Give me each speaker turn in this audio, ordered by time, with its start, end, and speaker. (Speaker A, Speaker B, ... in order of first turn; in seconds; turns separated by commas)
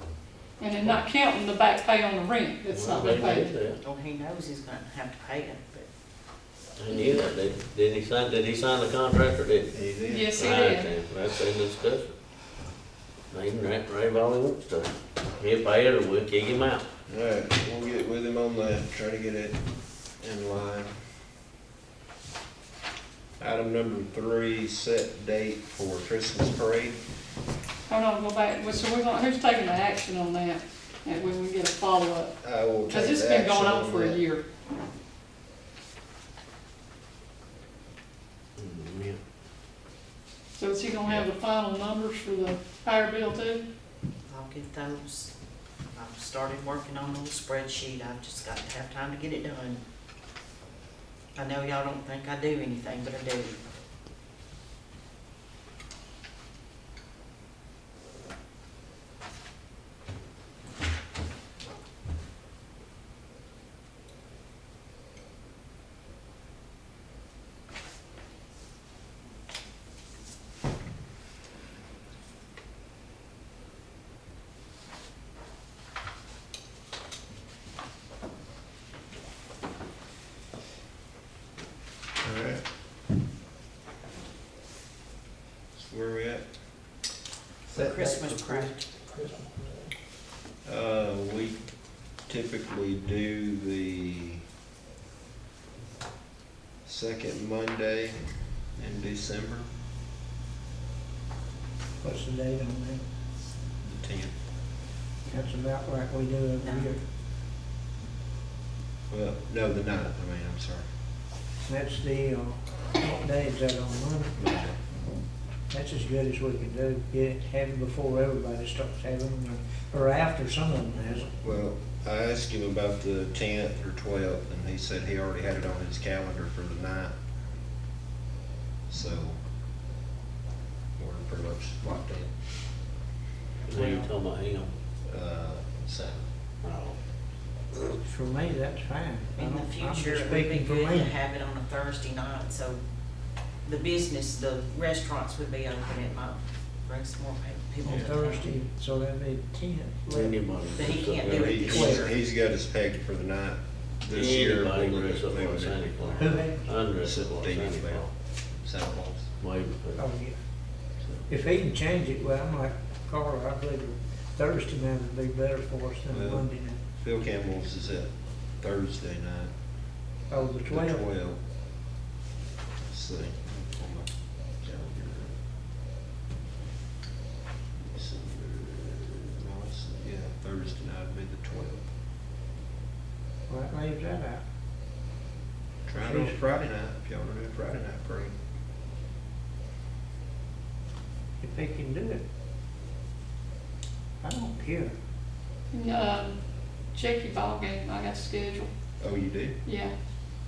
Speaker A: 0.6-3.5, Speaker B: 2.7-3.8, Speaker C: 3.8-5.9, Speaker B: 6.8-9.7, Speaker C: 6.9-7.2, Speaker D: 9.7-10.3, Speaker A: 10.1-10.9, Speaker B: 10.3-12.1, Speaker B: 13.3-16.9, Speaker D: 17.1-19.6, Speaker D: 20.2-20.9, Speaker D: 23.4-27.0, Speaker A: 27.9-32.3, Speaker D: 32.4-34.2, Speaker A: 32.9-34.4, Speaker B: 38.6-39.2, Speaker A: 40.5-43.6, Speaker C: 44.3-45.3, Speaker C: 45.9-49.8, Speaker C: 51.3-53.6, Speaker D: 82.2-82.6, Speaker D: 85.7-86.4, Speaker C: 87.7-88.9, Speaker E: 87.8-89.9, Speaker D: 90.6-91.6, Speaker D: 92.3-94.4, Speaker D: 96.8-98.2, Speaker D: 98.8-99.7, Speaker E: 102.0-103.0, Speaker D: 103.8-104.3, Speaker E: 105.3-107.0, Speaker C: 106.6-106.9, Speaker D: 109.1-110.8, Speaker E: 111.6-114.4, Speaker D: 114.3-114.8, Speaker E: 115.7-121.3, Speaker D: 121.4-127.1, Speaker D: 128.9-129.4, Speaker D: 131.0-132.3, Speaker B: 133.7-134.7, Speaker D: 133.7-134.0, Speaker D: 135.1-136.3, Speaker B: 136.6-136.9, Speaker E: 137.9-141.1, Speaker C: 139.4-142.8, Speaker C: 143.7-148.5, Speaker E: 147.8-150.4, Speaker D: 147.8-148.1, Speaker B: 150.1-151.9, Speaker C: 150.7-152.1, Speaker D: 151.3-156.4, Speaker E: 151.7-152.0, Speaker B: 154.1-158.1, Speaker E: 156.2-156.7, Speaker D: 157.0-159.3, Speaker B: 159.4-160.1, Speaker E: 159.9-160.4, Speaker E: 161.3-166.8, Speaker D: 166.1-168.1, Speaker D: 168.6-169.5, Speaker E: 170.3-171.0, Speaker D: 170.6-171.4, Speaker D: 172.8-174.1, Speaker D: 174.6-175.3, Speaker D: 177.8-181.8, Speaker E: 183.5-184.4, Speaker D: 185.8-188.3, Speaker E: 186.0-186.4, Speaker E: 191.4-192.2, Speaker E: 194.2-194.9, Speaker A: 195.7-196.4, Speaker A: 196.9-198.7, Speaker D: 199.0-199.6, Speaker A: 199.7-199.9